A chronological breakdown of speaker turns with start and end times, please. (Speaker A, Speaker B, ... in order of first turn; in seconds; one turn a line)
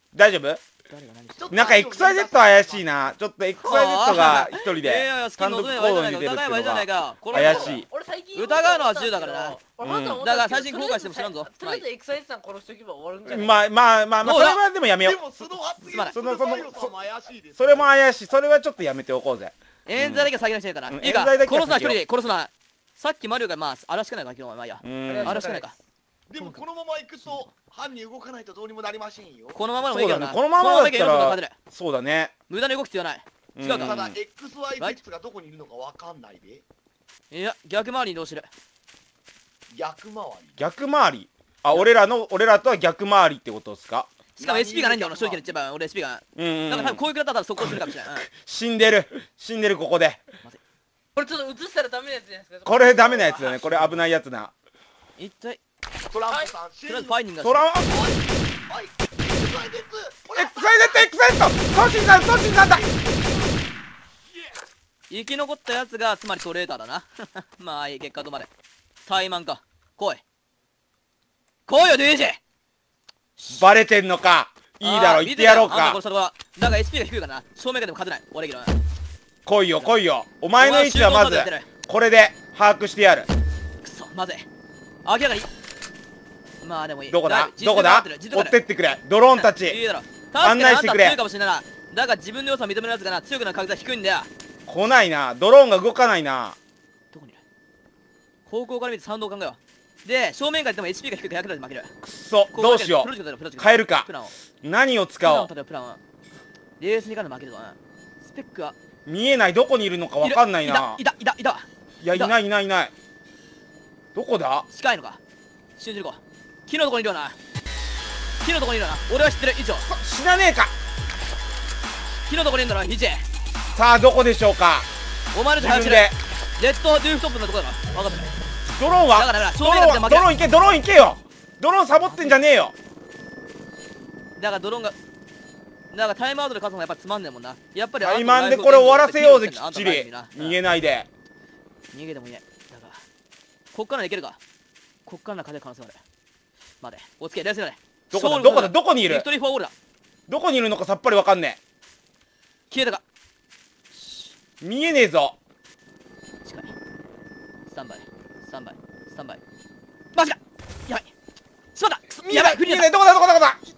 Speaker A: 0.1-0.6
Speaker B: 0.9-1.6
Speaker C: 1.4-2.9
Speaker A: 1.5-7.9
Speaker B: 3.6-9.6
Speaker C: 7.4-7.7
Speaker D: 7.4-14.0
Speaker A: 9.8-10.2
Speaker B: 10.2-11.8
Speaker A: 13.3-15.2
Speaker B: 14.2-14.6
Speaker C: 15.0-17.9
Speaker B: 15.8-16.2
Speaker A: 16.1-16.9
Speaker A: 17.6-20.3
Speaker B: 19.9-25.8
Speaker A: 20.9-22.0
Speaker A: 24.8-25.4
Speaker D: 25.1-25.7
Speaker C: 26.3-29.6
Speaker B: 26.4-26.6
Speaker B: 27.2-27.5
Speaker B: 29.6-31.6
Speaker A: 29.9-32.3
Speaker B: 32.5-34.1
Speaker A: 33.6-34.2
Speaker C: 33.7-36.6
Speaker B: 37.3-38.5
Speaker C: 39.7-40.6
Speaker A: 40.6-44.1
Speaker B: 44.4-48.3
Speaker C: 44.4-45.5
Speaker A: 46.4-47.0
Speaker A: 47.6-50.2
Speaker D: 51.1-53.8
Speaker A: 52.7-54.5
Speaker B: 55.2-55.6
Speaker C: 56.1-57.2
Speaker B: 56.9-57.6
Speaker A: 57.4-58.0
Speaker C: 57.8-61.1
Speaker A: 60.3-62.8
Speaker C: 62.5-63.6
Speaker B: 65.1-68.5
Speaker B: 69.1-70.2
Speaker B: 71.7-72.4
Speaker B: 73.4-73.6
Speaker A: 73.5-76.0
Speaker B: 74.8-78.8
Speaker A: 79.5-83.3
Speaker B: 80.6-81.7
Speaker B: 83.8-84.5
Speaker B: 85.0-85.5
Speaker B: 86.6-88.6
Speaker A: 87.1-89.8
Speaker B: 89.3-94.3
Speaker A: 90.4-91.2
Speaker A: 94.7-96.6
Speaker B: 97.1-97.4
Speaker B: 98.5-101.9
Speaker A: 102.0-104.1
Speaker B: 102.5-104.3
Speaker A: 104.6-105.5
Speaker B: 105.2-106.0
Speaker B: 106.8-108.8
Speaker A: 109.1-111.0
Speaker B: 110.2-112.4
Speaker A: 112.0-112.9
Speaker A: 114.2-114.7
Speaker B: 114.7-115.2
Speaker B: 115.8-117.4
Speaker B: 118.4-119.9
Speaker A: 119.9-120.7
Speaker B: 122.3-123.2
Speaker A: 123.8-124.9
Speaker B: 125.3-128.3
Speaker A: 125.6-126.2
Speaker A: 128.8-132.7
Speaker B: 129.1-130.3
Speaker B: 132.1-132.4
Speaker B: 134.4-135.0
Speaker B: 135.9-140.6
Speaker A: 138.0-141.1
Speaker B: 141.9-143.0
Speaker B: 143.7-144.4
Speaker B: 145.1-146.0
Speaker B: 146.8-149.7
Speaker A: 148.1-149.3
Speaker A: 150.3-151.6
Speaker B: 152.7-153.0
Speaker B: 153.9-154.3
Speaker A: 154.6-155.4
Speaker B: 156.4-156.7
Speaker B: 157.7-159.4
Speaker B: 160.1-161.1
Speaker B: 161.8-162.9
Speaker A: 162.2-163.6